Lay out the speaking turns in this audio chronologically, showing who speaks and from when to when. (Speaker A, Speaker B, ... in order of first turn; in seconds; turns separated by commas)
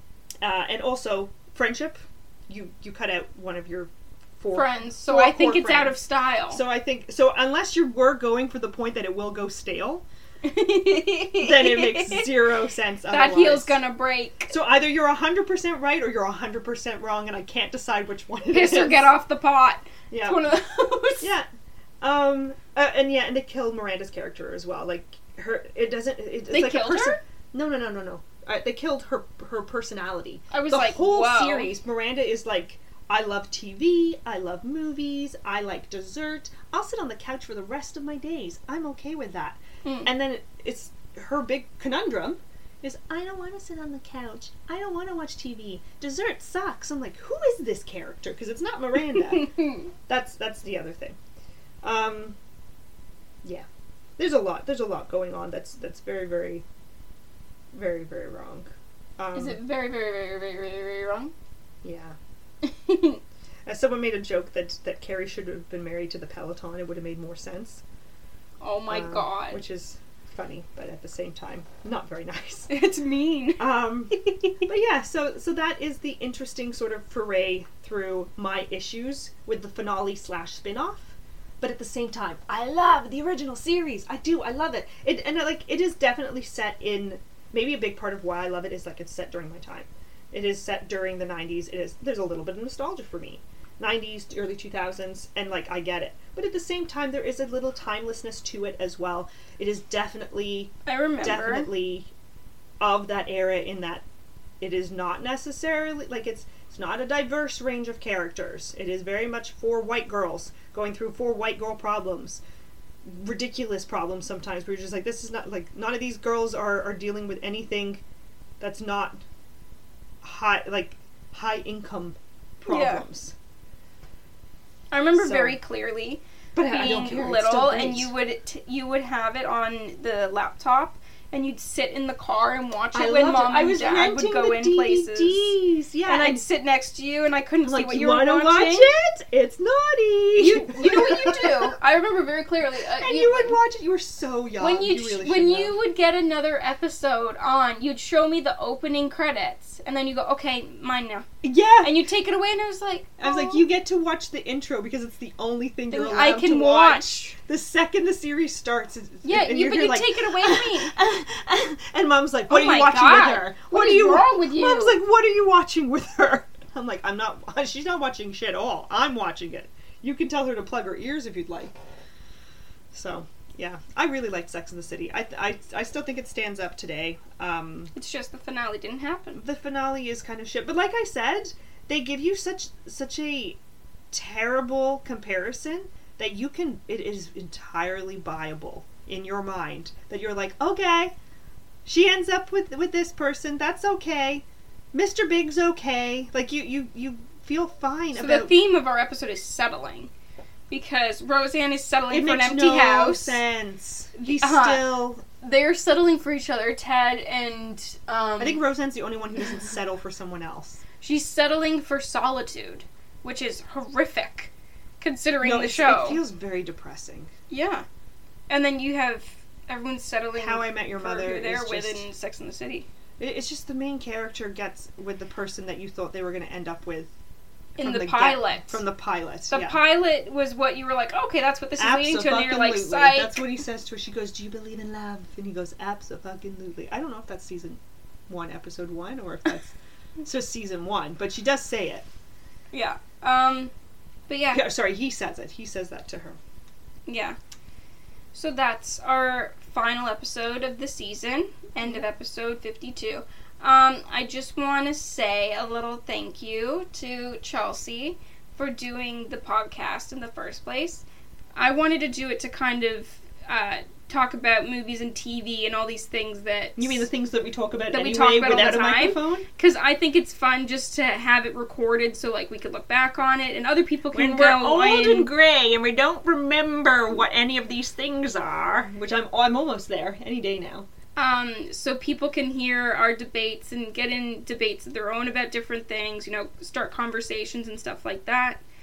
Speaker A: 0.4-6.0, Speaker B: 4.5-6.6, Speaker A: 6.5-10.0, Speaker B: 10.4-12.3, Speaker A: 11.4-13.8, Speaker B: 13.1-14.5, Speaker A: 14.5-19.1, Speaker B: 18.5-21.3, Speaker A: 20.1-20.5, Speaker A: 21.2-21.5, Speaker A: 22.0-49.5, Speaker B: 26.5-27.2, Speaker B: 30.5-31.7, Speaker A: 50.1-51.2, Speaker A: 51.8-52.4, Speaker A: 54.2-56.6, Speaker A: 57.7-59.6, Speaker B: 59.4-61.3, Speaker A: 61.8-62.2, Speaker B: 62.7-63.2, Speaker A: 63.7-67.8, Speaker B: 68.6-69.6, Speaker A: 68.9-72.7, Speaker B: 72.7-73.6, Speaker A: 73.6-102.1, Speaker B: 74.2-74.5, Speaker B: 100.9-101.7, Speaker A: 102.8-104.0, Speaker A: 104.6-112.4, Speaker A: 113.0-118.0, Speaker A: 118.6-119.2, Speaker A: 120.2-123.3, Speaker B: 122.7-123.0, Speaker B: 124.9-135.6, Speaker A: 125.2-125.6, Speaker A: 126.5-128.1, Speaker A: 132.9-136.4, Speaker B: 136.1-138.9, Speaker A: 137.6-141.7, Speaker B: 140.4-143.6, Speaker A: 143.0-145.8, Speaker B: 144.6-151.3, Speaker A: 151.4-152.0, Speaker B: 151.8-153.7, Speaker A: 153.2-171.7, Speaker B: 155.9-157.4, Speaker B: 159.2-160.9, Speaker B: 162.5-165.0, Speaker A: 172.9-177.9, Speaker B: 177.9-179.4, Speaker A: 179.4-183.6, Speaker A: 184.1-191.1, Speaker A: 191.8-198.6, Speaker B: 198.2-200.1, Speaker B: 200.7-203.4, Speaker A: 202.1-205.2, Speaker B: 204.2-208.6, Speaker A: 208.4-210.8, Speaker B: 211.0-216.2, Speaker A: 215.4-217.3, Speaker B: 217.5-217.8, Speaker B: 218.5-222.9, Speaker A: 220.3-222.1, Speaker A: 223.2-227.1, Speaker A: 227.8-229.8, Speaker B: 227.8-228.8, Speaker B: 229.5-233.4, Speaker A: 231.8-242.1, Speaker B: 242.7-243.7, Speaker B: 244.3-244.7, Speaker A: 244.5-246.4, Speaker B: 247.1-247.4, Speaker B: 248.3-261.0, Speaker B: 261.6-267.1, Speaker A: 266.8-269.5, Speaker B: 267.9-275.3, Speaker A: 274.1-280.9, Speaker B: 281.2-288.6